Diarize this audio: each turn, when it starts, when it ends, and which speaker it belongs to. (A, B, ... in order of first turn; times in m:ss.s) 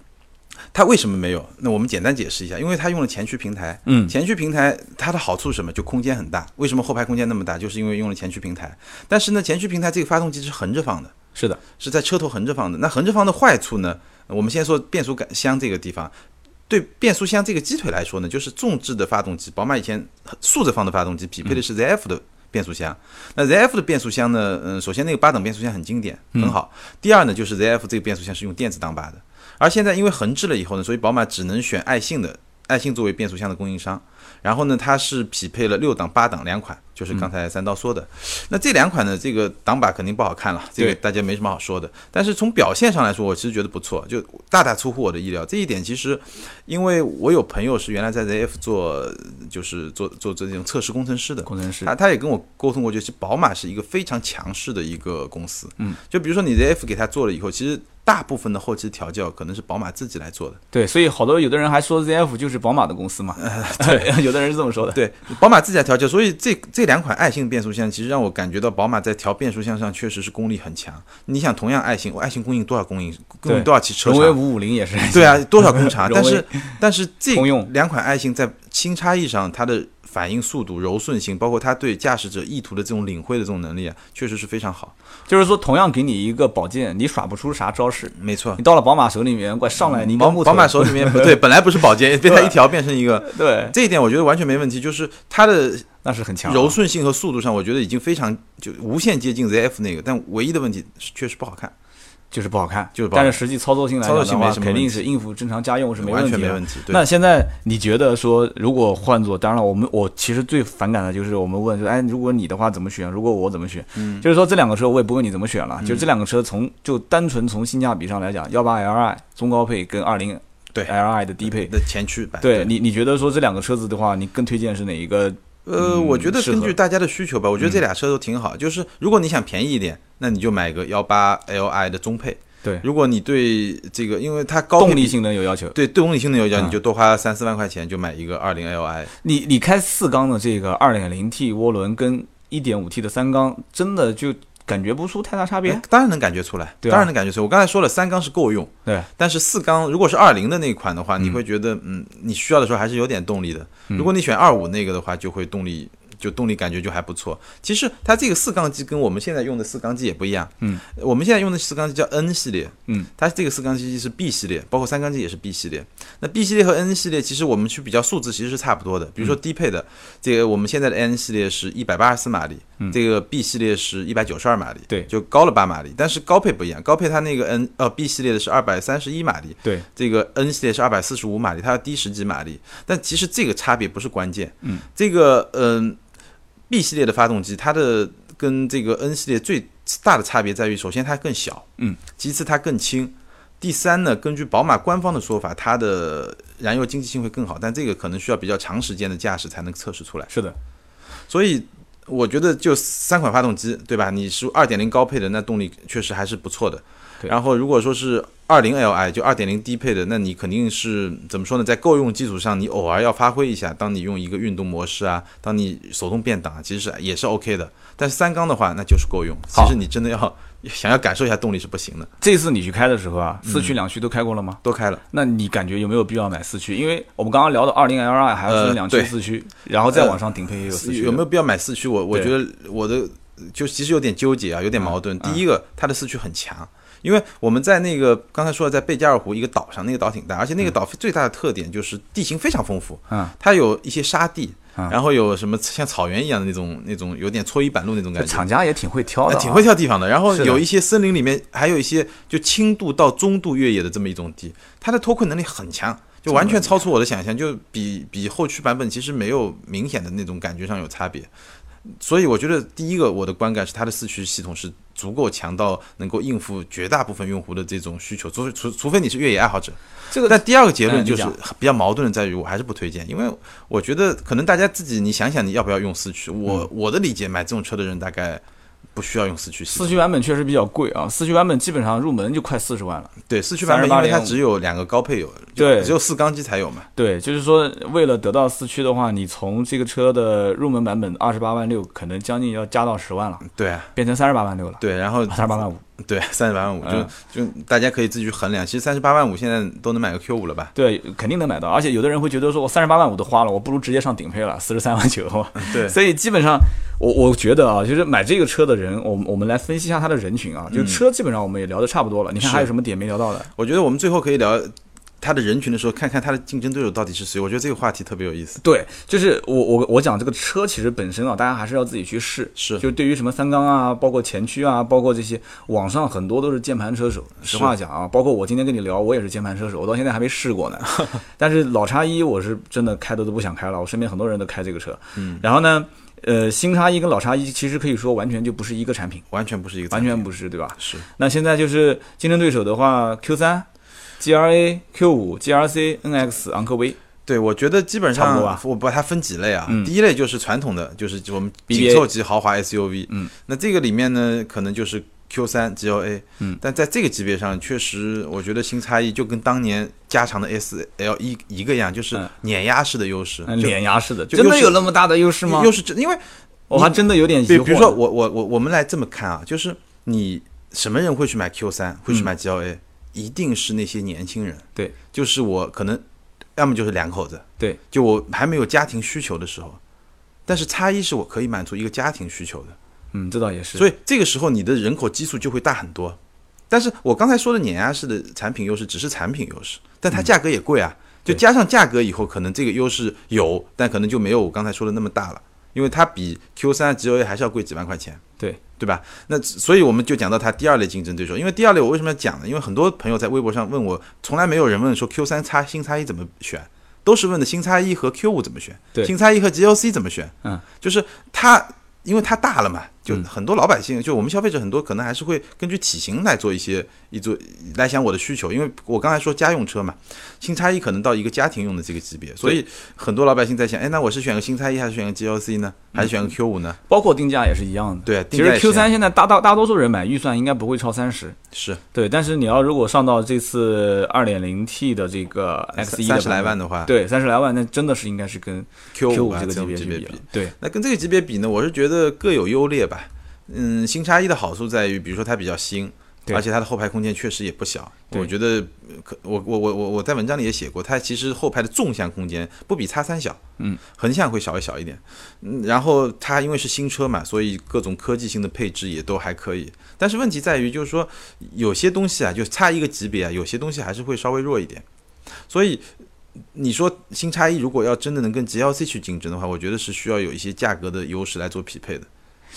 0:00.7-0:11.1 A
0:03.8-0:04.1 B
0:11.3-0:11.6 B
0:11.8-0:16.1 A
0:16.7-1:00.6 A
0:51.5-0:51.9 B
1:00.7-1:05.0 B
1:03.4-1:04.1 A
1:04.9-1:14.4 A
1:13.4-1:16.8 B
1:15.1-1:24.9 A
1:17.3-1:17.7 B
1:25.3-1:31.4 B
1:28.1-1:28.6 A
1:29.8-1:35.9 A
1:32.2-1:32.6 B
1:33.2-1:33.7 B
1:36.0-1:36.8 B
1:36.4-1:41.7 A
1:42.3-2:01.7 B
1:43.0-1:43.4 A
1:44.0-1:45.0 A
1:46.0-1:47.0 A
1:54.0-1:54.2 A
1:55.8-1:56.1 A
2:01.4-2:02.7 A
2:02.4-2:06.8 B
2:05.6-2:15.2 A
2:14.8-2:15.8 B
2:15.7-2:19.1 A
2:19.2-2:25.8 B
2:25.6-3:06.0 A
2:26.8-2:27.1 B
3:06.7-3:11.7 A
3:12.2-3:20.3 A
3:20.3-3:20.5 B
3:21.3-3:42.1 A
3:42.2-3:44.6 B
3:43.4-3:43.8 A
3:44.6-3:45.0 A
3:45.1-3:51.2 B
3:48.5-3:49.1 A
3:49.9-3:50.2 A
3:50.7-4:08.4 A
3:54.8-3:55.4 B
4:08.2-4:09.7 B
4:09.3-4:21.3 A
4:10.3-4:10.6 B
4:16.3-4:16.7 B
4:21.9-4:38.4 A
4:30.1-4:31.4 B
4:38.9-4:40.0 A
4:39.7-4:44.4 B
4:43.3-4:46.9 A
4:45.6-4:45.9 B
4:47.0-4:55.8 B
4:53.5-4:53.9 A
4:54.8-5:00.7 A
4:56.8-4:57.1 B
5:00.7-5:13.5 B
5:05.6-5:06.0 A
5:10.7-5:11.0 A
5:12.4-5:12.7 A
5:13.6-5:18.6 A
5:18.6-5:39.2 B
5:22.6-5:22.8 A
5:27.4-5:27.7 A
5:35.2-5:35.4 A
5:39.3-5:40.2 A
5:39.9-5:43.6 B
5:40.8-5:41.0 A
5:44.2-5:47.0 B
5:47.2-6:03.8 A
5:48.1-5:48.6 B
5:51.7-5:52.1 B
6:03.4-6:05.7 B
6:04.3-6:04.9 A
6:05.4-6:16.0 A
6:06.7-6:08.0 B
6:16.6-6:19.8 A
6:20.5-6:22.8 A
6:23.1-6:23.9 B
6:23.8-6:26.2 A
6:26.7-6:38.2 A
6:38.8-7:06.8 A
7:06.9-7:11.4 B
7:08.0-7:08.9 A
7:11.5-7:11.8 A
7:11.9-7:20.5 B
7:15.8-7:16.9 A
7:18.9-7:44.8 A
7:45.5-7:45.9 A
7:46.5-7:52.1 A